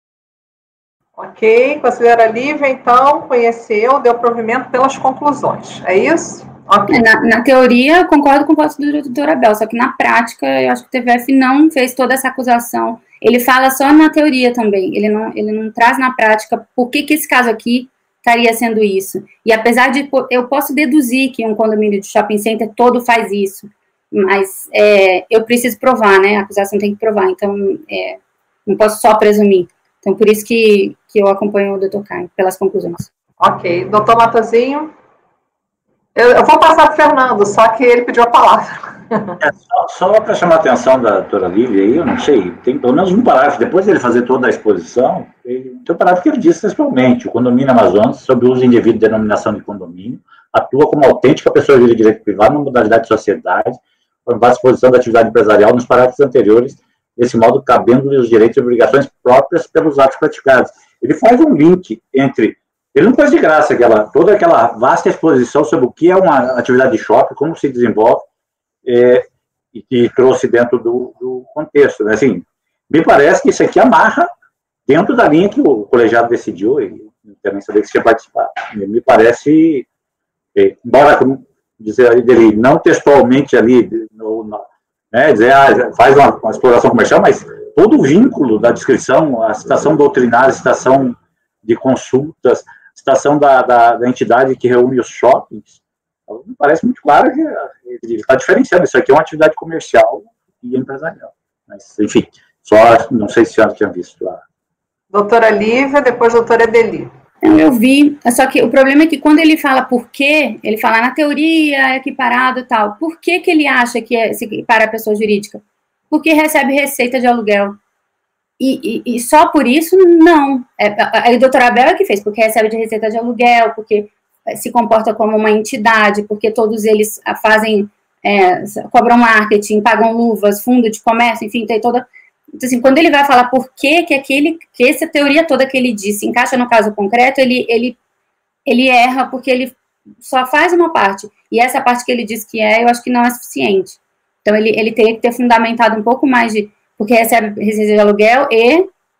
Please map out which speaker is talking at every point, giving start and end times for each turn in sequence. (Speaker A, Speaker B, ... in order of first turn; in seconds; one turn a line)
Speaker A: 1.2-7.0
Speaker B: 6.9-33.1
Speaker A: 33.4-34.9
Speaker A: 36.1-39.4
Speaker C: 39.4-68.3
Speaker C: 68.8-74.3
Speaker C: 74.8-79.8
Speaker C: 80.5-104.4
Speaker A: 105.1-107.1
Speaker B: 107.4-117.8
Speaker B: 118.6-132.1
Speaker B: 132.6-138.0
Speaker B: 138.7-148.9